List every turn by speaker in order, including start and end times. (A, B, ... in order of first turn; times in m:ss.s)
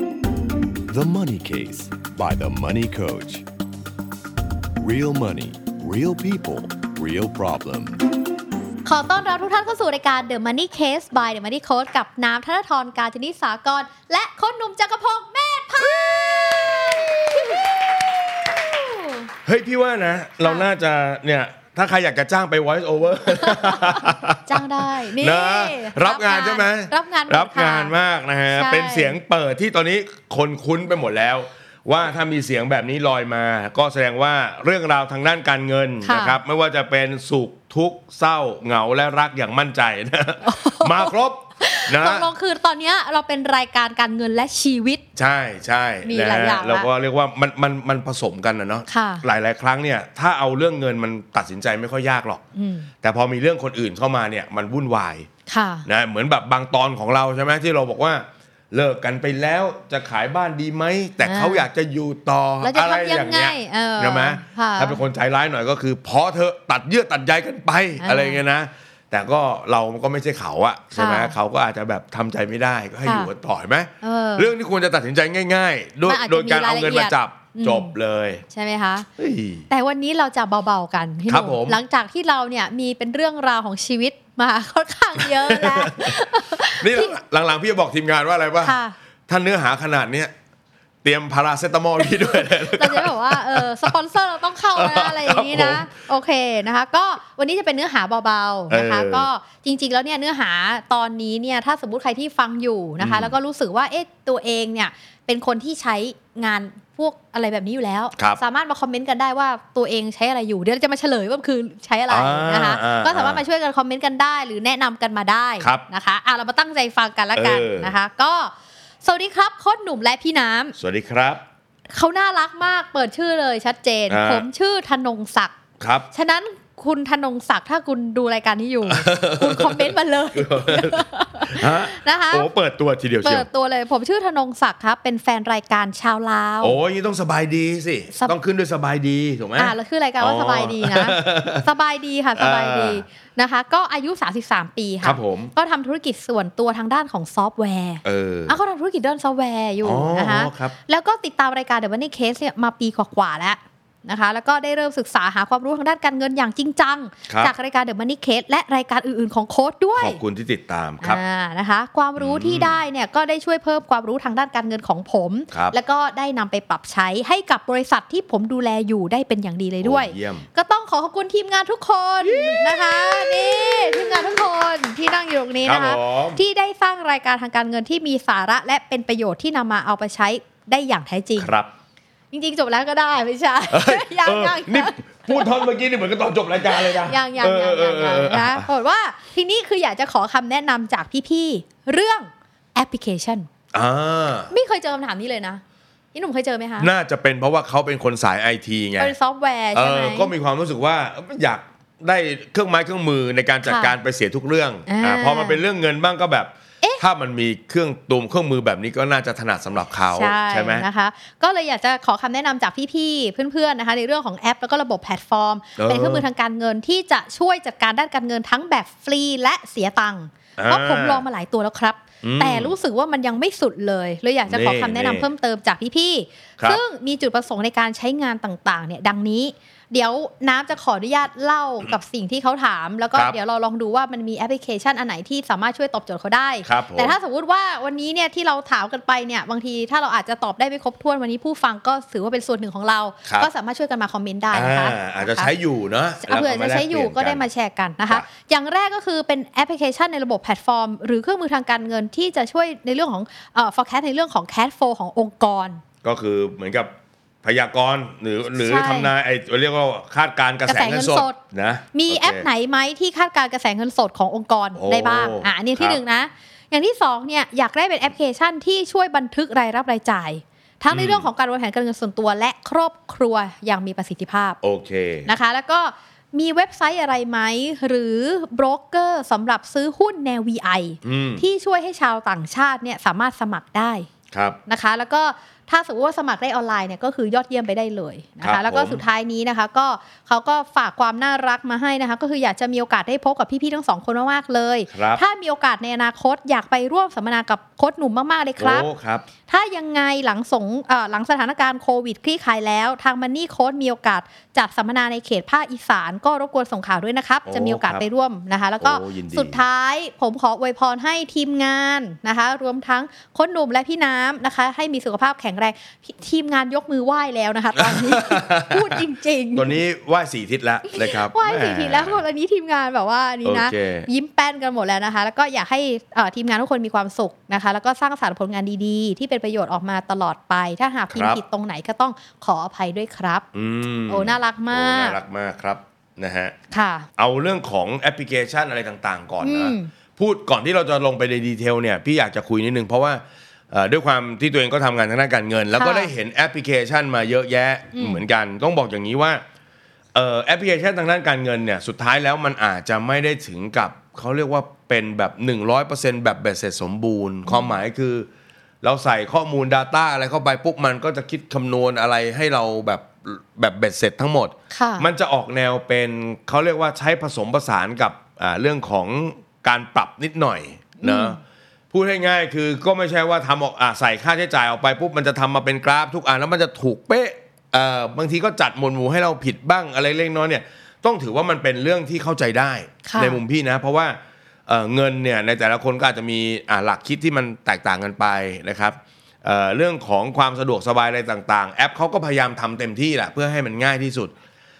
0:00.9-0:03.4 A
0:04.8-0:08.0 A
0:08.8-0:19.3 B
0:19.4-0:42.3 C
0:20.4-0:20.7 B
0:23.3-0:27.9 B
0:28.5-0:29.2 B
0:36.0-0:36.4 B
0:40.4-0:45.0 B
0:45.2-0:52.4 C
0:46.0-0:46.9 B
0:48.9-0:49.2 B
0:52.6-0:52.9 B
0:53.0-0:55.3 C
0:55.5-0:55.9 B
0:55.8-1:18.4 C
1:01.2-1:01.6 B
1:02.6-1:05.0 B
1:08.0-1:08.4 B
1:10.9-1:11.4 B
1:13.0-1:13.3 B
1:14.0-1:14.5 B
1:16.1-1:17.9 B
1:18.5-1:19.1 B
1:19.2-1:19.7 C
1:19.7-1:27.2 B
1:21.3-1:21.8 C
1:25.2-1:28.8 C
1:28.6-1:29.0 B
1:29.3-1:30.3 C
1:31.0-1:33.9 C
1:32.0-2:00.8 B
1:34.8-1:35.9 C
1:38.7-1:39.3 C
1:43.0-1:43.3 C
1:48.1-1:48.4 C
1:52.1-1:53.4 C
1:57.3-1:57.9 C
2:00.8-2:01.4 C
2:01.9-2:05.5 B
2:04.1-2:04.4 C
2:05.8-2:06.1 C
2:06.1-2:12.5 B
2:08.8-2:13.5 C
2:13.2-2:16.8 B
2:16.6-2:21.6 C
2:19.6-2:40.2 B
2:22.4-2:23.0 C
2:25.0-2:25.5 C
2:28.0-2:28.5 C
2:29.8-2:30.7 C
2:37.3-2:37.5 C
2:40.0-2:41.2 C
2:41.0-3:01.5 B
2:42.2-2:42.8 C
2:49.8-2:50.4 C
2:52.2-2:54.4 C
2:55.6-2:56.4 C
3:01.4-3:01.7 C
3:02.3-3:05.6 B
3:03.7-3:08.7 C
3:06.7-3:13.5 B
3:13.7-3:14.5 C
3:14.5-3:15.6 B
3:16.1-3:16.9 B
3:16.8-3:19.1 C
3:19.0-3:20.3 B
3:19.7-3:30.9 C
3:23.6-3:23.9 B
3:24.9-3:25.6 B
3:30.1-4:05.5 B
3:35.8-3:36.2 C
3:40.6-3:41.2 C
3:42.2-3:42.7 C
3:44.5-3:45.3 C
3:56.6-3:57.2 C
4:03.2-4:03.5 C
4:04.5-4:07.4 C
4:06.2-4:15.8 B
4:16.0-4:16.9 C
4:17.4-4:22.5 C
4:18.6-4:19.1 B
4:20.6-4:21.4 B
4:21.9-4:34.6 B
4:24.7-4:26.0 C
4:30.9-4:31.3 C
4:34.6-4:35.3 C
4:35.2-4:44.1 B
4:41.0-4:41.4 C
4:44.3-4:44.6 C
4:44.7-4:58.9 B
4:48.4-4:49.0 C
4:54.9-4:55.2 C
4:58.6-4:59.2 C
4:59.5-5:19.8 B
5:07.4-5:08.0 C
5:08.8-5:09.6 C
5:17.8-5:19.0 C
5:19.5-5:22.2 C
5:20.9-5:33.4 B
5:23.4-5:24.1 C
5:31.1-5:31.4 C
5:33.5-5:36.5 C
5:34.1-5:35.2 B
5:36.7-5:37.1 B
5:37.2-5:49.4 C
5:39.4-5:39.9 B
5:45.7-5:46.1 B
5:47.9-5:48.2 B
5:50.1-5:58.3 C
5:57.5-5:57.8 B
5:58.8-6:11.4 C
6:04.7-6:05.1 B
6:11.0-6:11.4 B
6:11.9-6:34.3 C
6:23.0-6:23.4 B